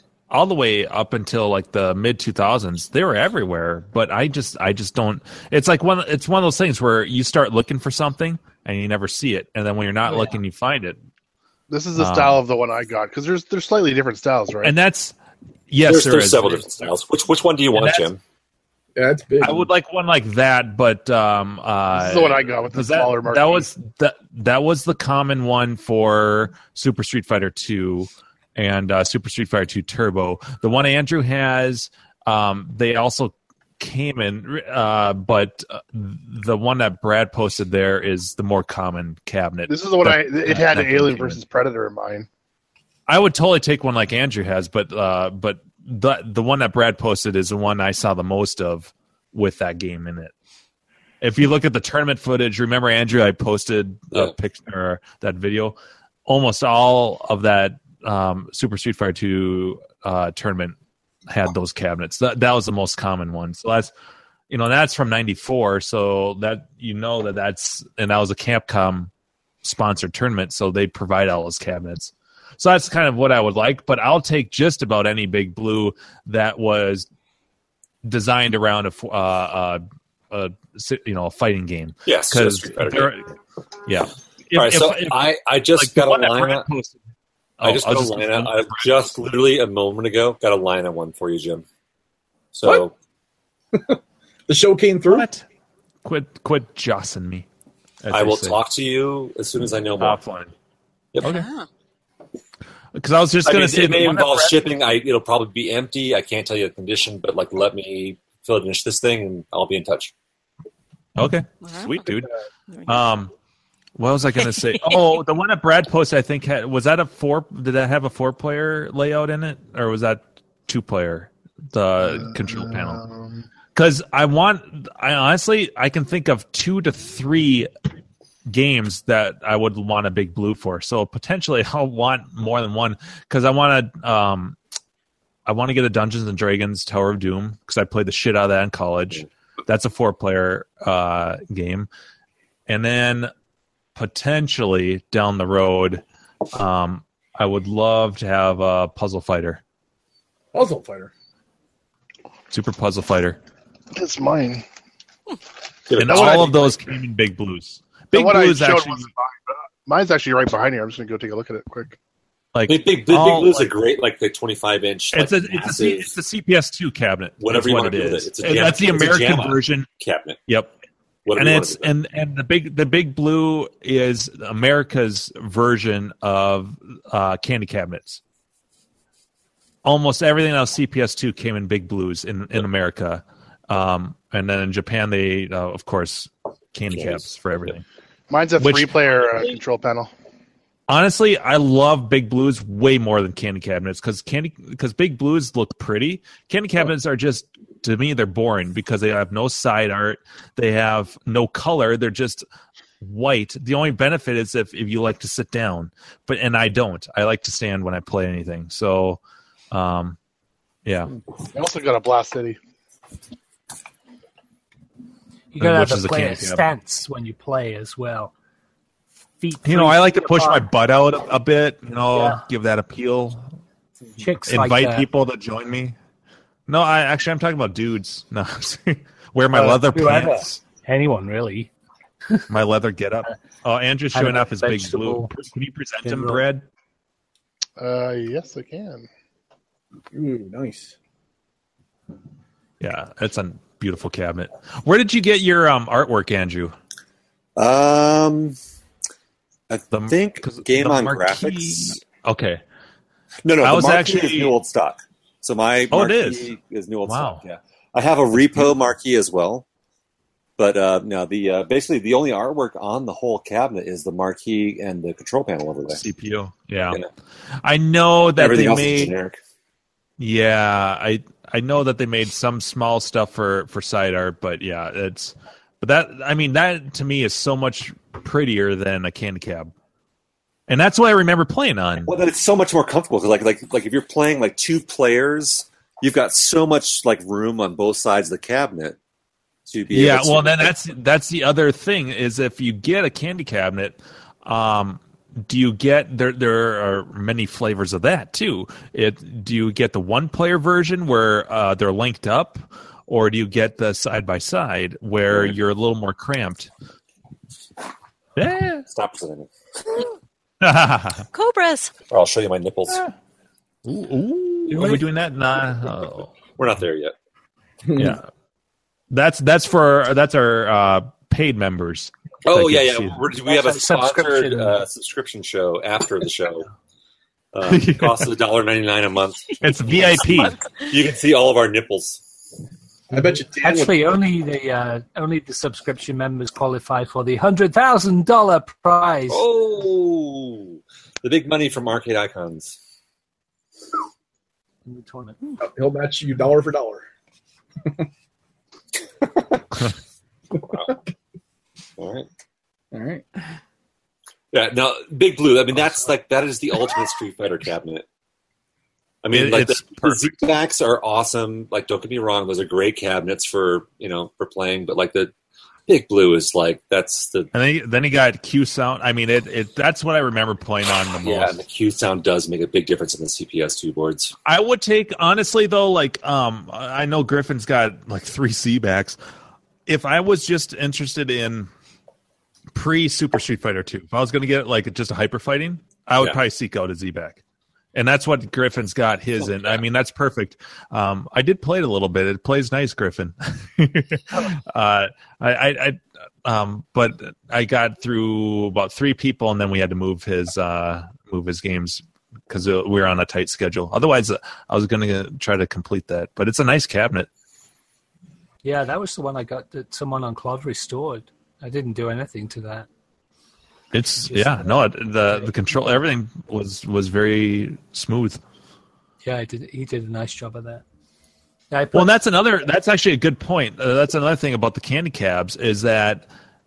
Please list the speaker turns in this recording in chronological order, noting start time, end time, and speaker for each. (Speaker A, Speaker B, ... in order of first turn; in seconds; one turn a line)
Speaker A: 0.3-11.0
Speaker B: 11.7-14.7
Speaker A: 11.9-12.4
Speaker A: 14.6-15.1
Speaker A: 15.7-16.9
Speaker C: 15.8-18.2
Speaker A: 17.7-18.1
Speaker D: 18.9-19.7
Speaker A: 19.4-41.4
Speaker B: 21.9-23.7
Speaker B: 39.7-42.3
Speaker A: 43.1-50.3
Speaker A: 51.2-60.7
Speaker A: 61.3-63.9
Speaker A: 64.5-69.1
Speaker A: 69.6-77.0
Speaker A: 78.0-83.2
Speaker C: 82.0-83.1
Speaker A: 83.9-87.0
Speaker C: 84.5-86.7
Speaker A: 87.6-89.1
Speaker C: 87.6-91.6
Speaker C: 92.5-92.9
Speaker D: 93.7-95.3
Speaker A: 95.1-95.4
Speaker A: 96.0-97.5
Speaker A: 98.0-98.6
Speaker C: 98.1-100.2
Speaker A: 100.0-100.5
Speaker A: 101.2-101.5
Speaker A: 102.9-104.6
Speaker C: 103.4-110.1
Speaker A: 111.2-112.3
Speaker E: 111.6-112.0
Speaker E: 112.7-113.0
Speaker A: 112.9-113.3
Speaker A: 114.0-123.0
Speaker E: 114.5-115.1
Speaker B: 122.2-123.4
Speaker A: 123.7-127.7
Speaker A: 128.4-134.6
Speaker A: 135.4-141.9
Speaker A: 142.7-143.3
Speaker A: 143.9-146.0
Speaker A: 146.5-149.6
Speaker D: 150.5-151.1
Speaker A: 152.5-153.4
Speaker B: 153.9-154.6
Speaker C: 155.9-156.6
Speaker A: 155.9-159.1
Speaker B: 156.1-156.7
Speaker B: 158.1-162.0
Speaker A: 162.5-163.7
Speaker C: 162.7-166.1
Speaker A: 165.1-169.9
Speaker C: 167.4-170.4
Speaker A: 170.5-170.7
Speaker C: 171.2-171.9
Speaker A: 171.3-178.2
Speaker A: 179.8-187.8
Speaker C: 186.9-187.2
Speaker B: 188.3-190.1
Speaker A: 188.6-189.0
Speaker A: 190.9-202.4
Speaker A: 203.0-209.2
Speaker A: 209.7-210.2
Speaker A: 210.8-211.1
Speaker B: 211.5-212.6
Speaker F: 215.5-218.3
Speaker A: 215.6-216.6
Speaker F: 219.4-220.7
Speaker A: 219.6-223.4
Speaker F: 222.1-222.4
Speaker F: 224.2-225.1
Speaker A: 224.5-225.9
Speaker A: 226.7-230.6
Speaker F: 229.5-231.7
Speaker A: 232.5-236.6
Speaker F: 234.1-235.3
Speaker F: 236.0-236.4
Speaker B: 237.8-239.1
Speaker D: 240.1-240.9
Speaker A: 242.8-246.7
Speaker C: 247.6-248.6
Speaker C: 249.7-252.0
Speaker A: 249.9-252.6
Speaker C: 253.4-259.6
Speaker A: 253.6-254.5
Speaker A: 255.9-256.5
Speaker A: 257.1-257.4
Speaker C: 260.6-266.0
Speaker A: 265.9-267.0
Speaker A: 267.6-269.1
Speaker C: 268.4-269.4
Speaker A: 270.2-279.7
Speaker A: 280.7-282.1
Speaker C: 282.1-289.0
Speaker C: 289.7-290.7
Speaker A: 289.9-306.7
Speaker C: 305.3-305.6
Speaker A: 308.4-308.8
Speaker C: 308.9-310.0
Speaker A: 310.6-311.2
Speaker E: 311.3-311.9
Speaker C: 312.1-313.0
Speaker A: 313.8-316.3
Speaker F: 314.7-315.0
Speaker C: 316.6-317.1
Speaker D: 317.9-318.2
Speaker A: 317.9-318.2
Speaker A: 319.1-323.2
Speaker C: 322.4-326.6
Speaker F: 323.4-324.7
Speaker C: 327.5-332.2
Speaker A: 327.6-328.3
Speaker A: 329.6-330.6
Speaker E: 330.2-330.8
Speaker D: 333.1-334.0
Speaker F: 333.1-339.4
Speaker C: 339.3-342.8
Speaker F: 344.9-345.6
Speaker D: 345.6-347.0
Speaker D: 349.2-349.6
Speaker C: 350.7-350.9
Speaker C: 352.0-352.3
Speaker D: 352.9-353.2
Speaker C: 354.5-358.1
Speaker C: 359.2-365.3
Speaker A: 359.3-360.4
Speaker C: 365.9-367.5
Speaker A: 367.5-371.6
Speaker C: 371.2-374.3
Speaker A: 374.4-379.2
Speaker A: 379.9-381.7
Speaker A: 382.7-387.4
Speaker A: 387.9-407.3
Speaker F: 408.6-412.9
Speaker A: 413.9-418.4
Speaker F: 414.2-415.7
Speaker F: 419.2-420.8
Speaker F: 421.7-422.1
Speaker A: 421.9-426.3